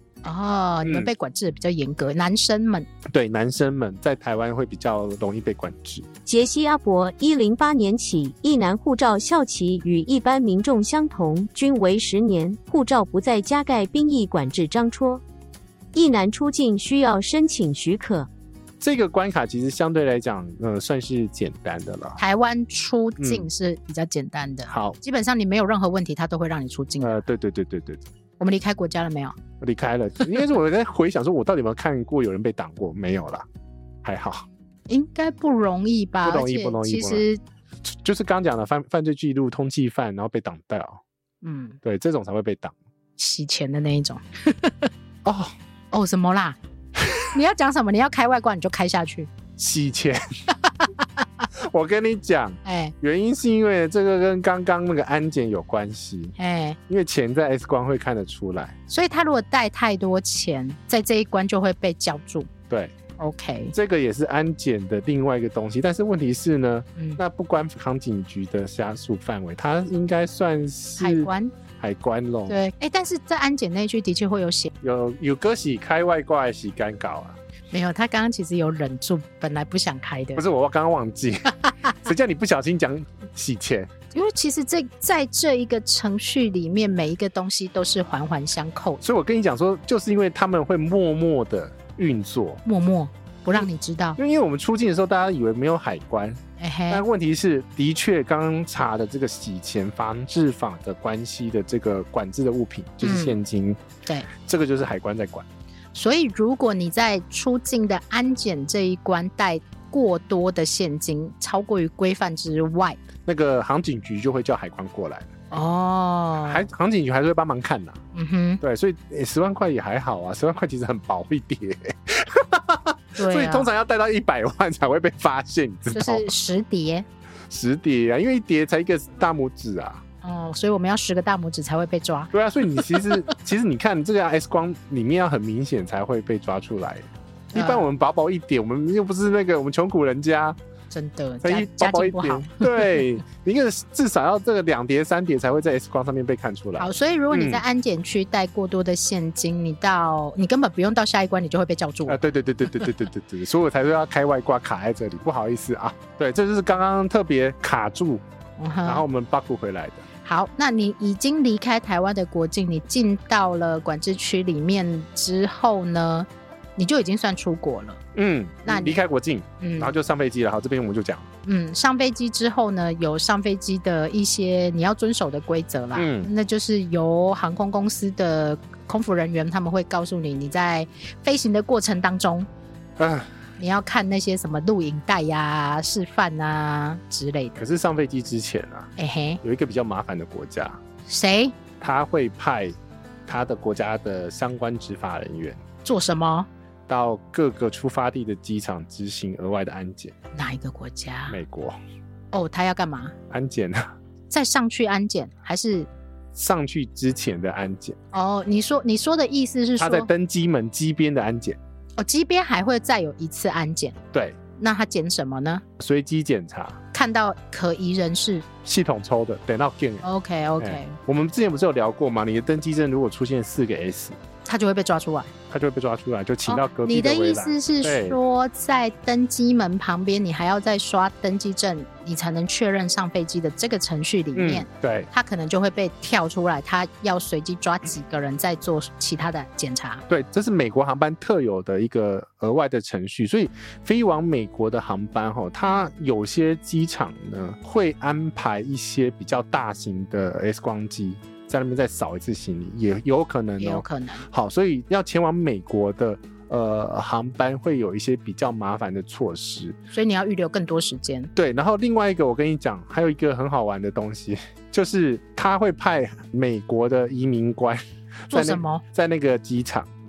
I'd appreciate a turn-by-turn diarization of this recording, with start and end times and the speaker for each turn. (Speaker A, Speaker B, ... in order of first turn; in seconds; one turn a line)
Speaker A: 0.2-2.9
Speaker B: 0.8-1.1
Speaker B: 3.0-6.1
Speaker C: 6.2-15.2
Speaker C: 15.9-18.3
Speaker B: 18.8-22.2
Speaker A: 22.2-27.2
Speaker B: 23.2-23.5
Speaker B: 24.7-25.0
Speaker B: 27.0-28.0
Speaker A: 28.4-29.3
Speaker B: 29.6-33.5
Speaker B: 34.0-34.5
Speaker A: 34.9-37.4
Speaker B: 36.2-37.2
Speaker B: 37.8-41.0
Speaker A: 41.4-41.8
Speaker B: 41.8-42.7
Speaker A: 43.2-44.9
Speaker B: 45.2-45.5
Speaker A: 45.9-46.6
Speaker B: 47.0-47.3
Speaker A: 47.3-49.3
Speaker B: 49.6-50.2
Speaker A: 50.8-51.2
Speaker B: 51.5-56.4
Speaker A: 52.6-52.9
Speaker A: 56.4-56.8
Speaker B: 56.9-58.8
Speaker A: 58.9-62.5
Speaker A: 63.2-63.7
Speaker B: 63.7-72.6
Speaker A: 71.0-71.5
Speaker A: 72.5-74.7
Speaker B: 74.8-77.4
Speaker A: 77.7-80.4
Speaker B: 80.3-83.9
Speaker A: 84.1-89.0
Speaker B: 89.0-92.6
Speaker A: 92.6-94.2
Speaker B: 94.2-103.8
Speaker A: 96.6-97.0
Speaker A: 103.0-103.4
Speaker B: 104.4-105.5
Speaker A: 105.9-113.0
Speaker B: 113.2-115.3
Speaker A: 115.5-116.6
Speaker B: 116.4-118.0
Speaker A: 118.1-118.6
Speaker B: 118.6-126.3
Speaker A: 123.2-123.7
Speaker A: 125.9-127.0
Speaker B: 127.5-130.0
Speaker A: 130.2-133.3
Speaker B: 132.3-140.6
Speaker A: 137.5-137.9
Speaker A: 140.9-143.0
Speaker B: 141.4-147.6
Speaker A: 146.8-152.2
Speaker B: 152.1-158.2
Speaker A: 158.6-159.0
Speaker B: 158.8-160.1
Speaker A: 160.2-168.0
Speaker B: 168.1-171.3
Speaker A: 168.7-169.0
Speaker A: 169.6-169.9
Speaker A: 171.4-182.5
Speaker B: 175.9-176.3
Speaker B: 183.0-183.3
Speaker A: 183.6-187.6
Speaker B: 187.6-190.8
Speaker A: 189.0-189.4
Speaker A: 191.1-191.6
Speaker B: 191.8-192.8
Speaker B: 193.3-195.6
Speaker A: 195.8-196.5
Speaker B: 196.9-200.1
Speaker A: 200.3-201.4
Speaker B: 201.3-201.8
Speaker A: 202.3-203.1
Speaker B: 203.3-203.9
Speaker A: 204.3-205.9
Speaker B: 206.3-208.0
Speaker A: 208.1-210.1
Speaker B: 209.8-211.6
Speaker A: 212.0-214.0
Speaker B: 214.1-214.4
Speaker A: 214.6-215.6
Speaker B: 215.8-216.8
Speaker A: 216.9-218.4
Speaker B: 218.6-220.0
Speaker A: 220.0-221.0
Speaker B: 220.6-224.2
Speaker A: 224.4-225.3
Speaker B: 225.5-228.2
Speaker A: 226.4-240.0
Speaker B: 234.3-235.1
Speaker B: 240.1-259.8
Speaker A: 253.6-254.3
Speaker A: 259.9-261.3
Speaker B: 261.4-269.9
Speaker A: 268.3-268.8